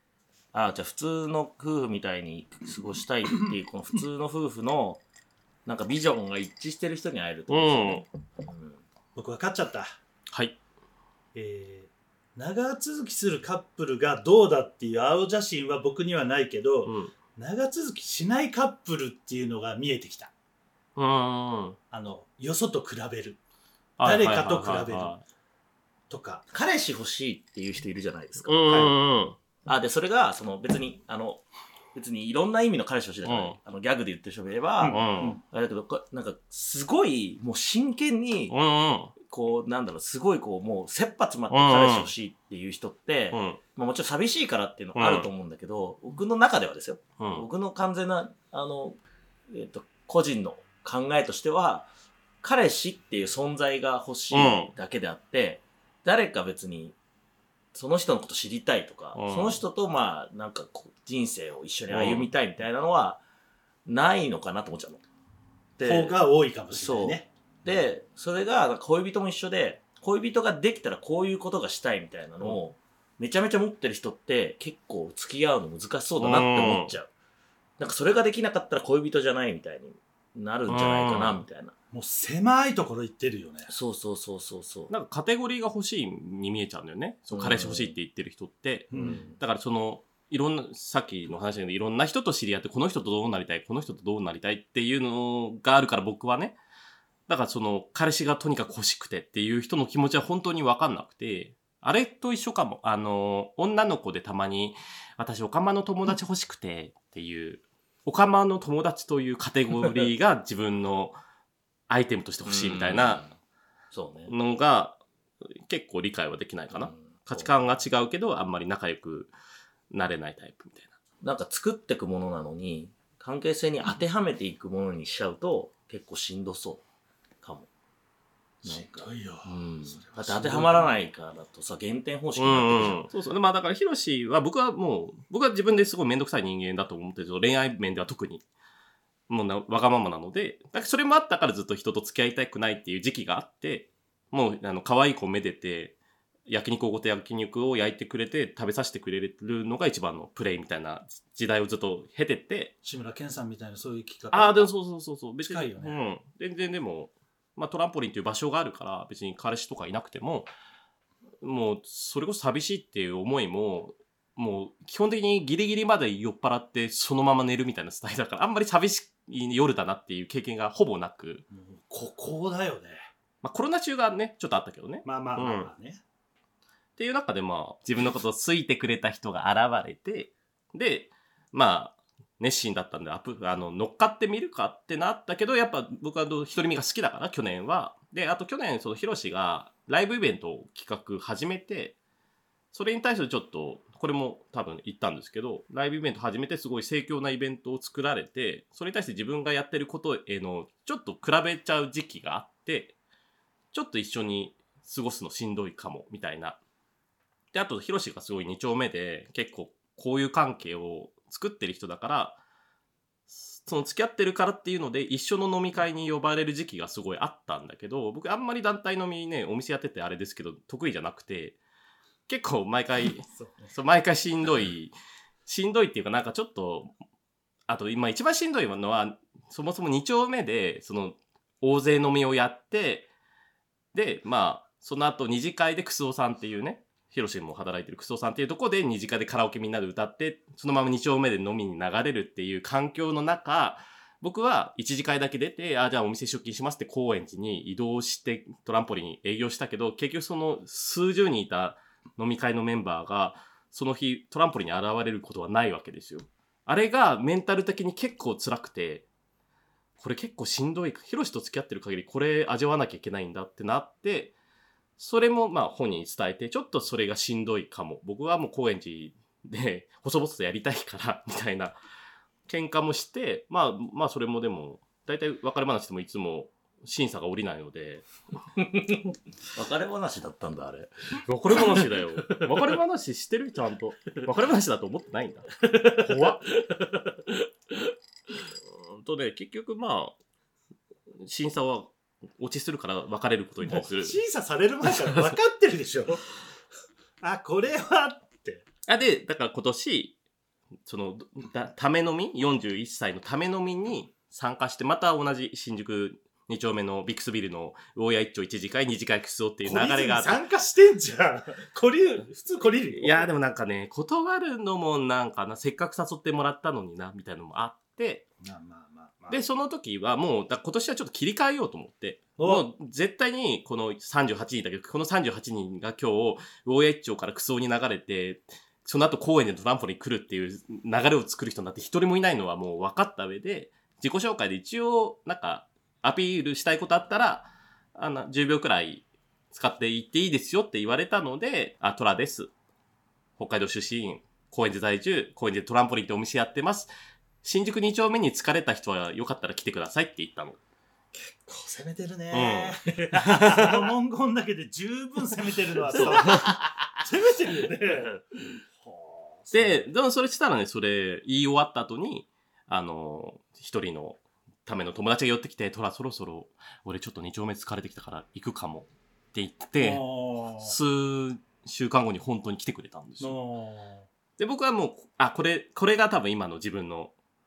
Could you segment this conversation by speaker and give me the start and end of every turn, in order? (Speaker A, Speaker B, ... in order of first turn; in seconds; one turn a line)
Speaker A: 0.5-5.0
Speaker A: 5.7-8.8
Speaker B: 7.5-8.0
Speaker C: 9.1-9.9
Speaker B: 10.3-10.6
Speaker C: 11.3-20.3
Speaker B: 16.8-17.1
Speaker B: 20.9-21.8
Speaker C: 21.9-23.4
Speaker B: 24.0-25.2
Speaker C: 24.0-25.2
Speaker C: 26.1-26.4
Speaker A: 26.5-28.6
Speaker B: 28.4-29.4
Speaker C: 28.7-28.9
Speaker A: 29.6-38.5
Speaker B: 33.2-33.6
Speaker C: 34.8-35.4
Speaker B: 34.9-35.4
Speaker B: 38.5-39.1
Speaker A: 39.2-49.0
Speaker B: 41.5-42.1
Speaker B: 43.3-43.6
Speaker B: 44.9-45.3
Speaker B: 47.2-47.5
Speaker A: 49.5-51.9
Speaker A: 52.4-57.0
Speaker B: 54.3-54.7
Speaker A: 57.7-63.2
Speaker B: 59.1-59.6
Speaker B: 61.9-62.3
Speaker A: 63.9-65.0
Speaker A: 65.8-66.2
Speaker C: 65.8-67.3
Speaker A: 66.7-77.1
Speaker B: 76.2-76.9
Speaker A: 77.8-81.7
Speaker B: 80.7-81.4
Speaker C: 81.9-83.7
Speaker A: 83.7-84.9
Speaker B: 84.9-96.6
Speaker A: 87.3-87.9
Speaker C: 88.9-89.2
Speaker A: 88.9-89.4
Speaker B: 97.3-111.2
Speaker B: 111.9-113.2
Speaker A: 112.4-113.3
Speaker A: 113.9-114.3
Speaker B: 114.3-115.0
Speaker B: 115.6-119.3
Speaker A: 116.7-117.5
Speaker B: 119.9-120.9
Speaker A: 121.2-126.8
Speaker A: 127.4-127.7
Speaker C: 128.6-130.9
Speaker A: 128.6-133.0
Speaker B: 132.3-138.4
Speaker B: 139.3-145.9
Speaker B: 146.5-152.7
Speaker C: 152.8-154.7
Speaker B: 154.3-160.5
Speaker C: 155.4-156.0
Speaker B: 161.4-171.4
Speaker C: 171.5-173.1
Speaker B: 173.4-175.7
Speaker C: 175.0-176.0
Speaker B: 177.0-191.9
Speaker B: 192.7-202.9
Speaker B: 203.7-206.6
Speaker B: 207.5-212.4
Speaker B: 213.3-221.6
Speaker B: 222.3-224.9
Speaker C: 223.3-223.7
Speaker B: 225.4-226.9
Speaker B: 227.7-233.1
Speaker B: 233.9-259.1
Speaker B: 260.0-264.3
Speaker B: 265.0-271.8
Speaker B: 272.5-278.1
Speaker A: 278.6-280.9
Speaker B: 281.2-286.5
Speaker A: 281.5-282.5
Speaker A: 285.6-287.8
Speaker B: 288.6-290.1
Speaker B: 291.2-294.2
Speaker C: 293.6-296.2
Speaker C: 297.2-298.6
Speaker B: 298.9-300.1
Speaker B: 300.9-310.4
Speaker C: 309.6-313.3
Speaker B: 312.9-318.2
Speaker C: 318.4-319.4
Speaker B: 319.3-342.5
Speaker C: 322.4-322.7
Speaker B: 343.4-346.9
Speaker B: 347.4-350.6
Speaker C: 351.1-358.2
Speaker B: 352.3-353.9
Speaker A: 355.9-356.8
Speaker C: 358.8-359.8
Speaker B: 359.5-370.0
Speaker C: 369.8-370.8
Speaker B: 370.6-373.4
Speaker C: 373.2-374.1
Speaker B: 374.4-377.1